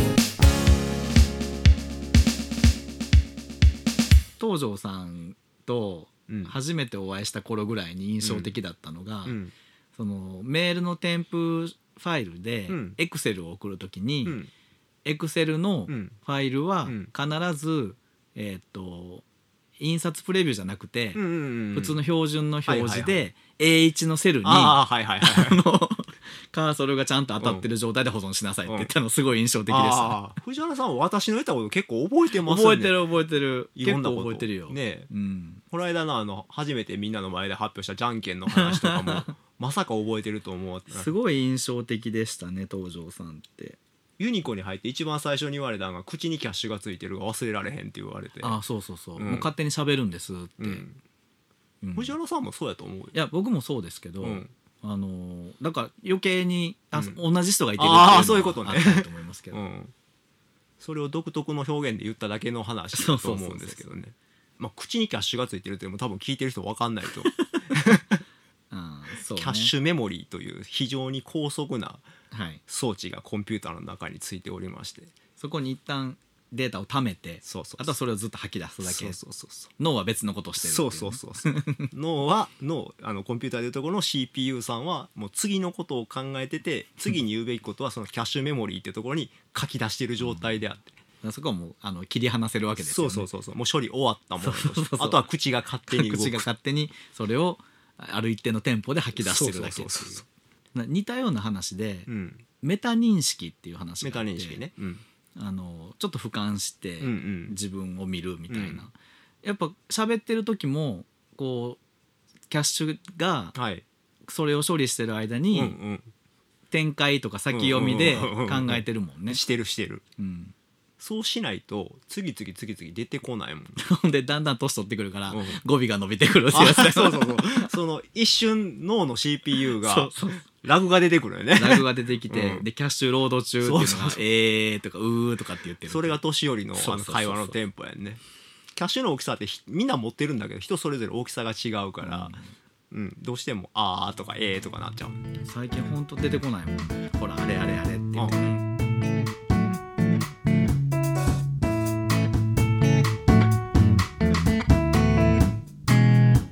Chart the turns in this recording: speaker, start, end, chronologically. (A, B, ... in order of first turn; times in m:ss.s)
0:04.4-0:09.4 A
0:06.3-0:06.5 B
0:08.2-0:08.5 B
0:09.3-0:09.5 B
0:10.0-0:14.4 A
0:12.7-0:13.0 B
0:14.2-0:14.5 B
0:15.0-0:19.2 A
0:15.9-0:16.2 B
0:19.8-0:21.2 A
0:21.2-0:22.0 B
0:21.8-0:30.2 A
0:22.7-0:23.2 B
0:24.4-0:25.6 B
0:27.4-0:27.7 B
0:29.7-0:33.0 B
0:32.4-0:35.6 A
0:33.8-0:35.1 B
0:35.7-0:41.1 B
0:38.6-0:39.3 A
0:40.9-0:43.8 A
0:44.2-0:48.6 B
0:48.4-0:50.8 A
0:49.2-0:49.5 B
0:50.6-0:51.0 B
0:51.8-0:52.2 A
0:52.0-0:53.2 B
0:53.1-0:59.6 A
0:54.2-0:54.5 B
0:57.8-0:59.9 B
1:00.8-1:08.2 B
1:02.9-1:03.8 A
1:07.2-1:07.8 A
1:08.7-1:09.7 A
1:09.3-1:12.1 B
1:12.3-1:12.6 A
1:12.7-1:15.1 B
1:15.4-1:19.2 A
1:17.4-1:17.9 B
1:18.8-1:19.7 B
1:19.8-1:21.9 A
1:20.6-1:31.0 B
1:31.2-1:33.3 A
1:32.8-1:36.4 B
1:34.4-1:35.3 A
1:35.9-1:42.1 A
1:39.2-1:40.2 B
1:42.1-1:42.4 B
1:42.6-1:44.6 A
1:44.0-1:45.0 B
1:45.4-1:51.8 A
1:47.0-1:47.6 B
1:48.5-1:48.8 B
1:52.5-1:53.6 A
1:53.6-1:53.8 B
1:54.3-1:55.8 A
1:55.5-1:56.1 B
1:56.7-1:59.4 A
1:57.5-2:00.0 B
2:00.2-2:00.5 A
2:01.0-2:03.8 B
2:03.8-2:07.7 A
2:05.3-2:05.6 B
2:06.5-2:12.6 B
2:09.7-2:10.5 A
2:11.6-2:16.2 A
2:13.6-2:14.2 B
2:15.8-2:18.2 B
2:16.7-2:17.6 A
2:18.8-2:22.4 B
2:22.0-2:22.5 A
2:22.9-2:25.2 B
2:25.4-2:28.6 A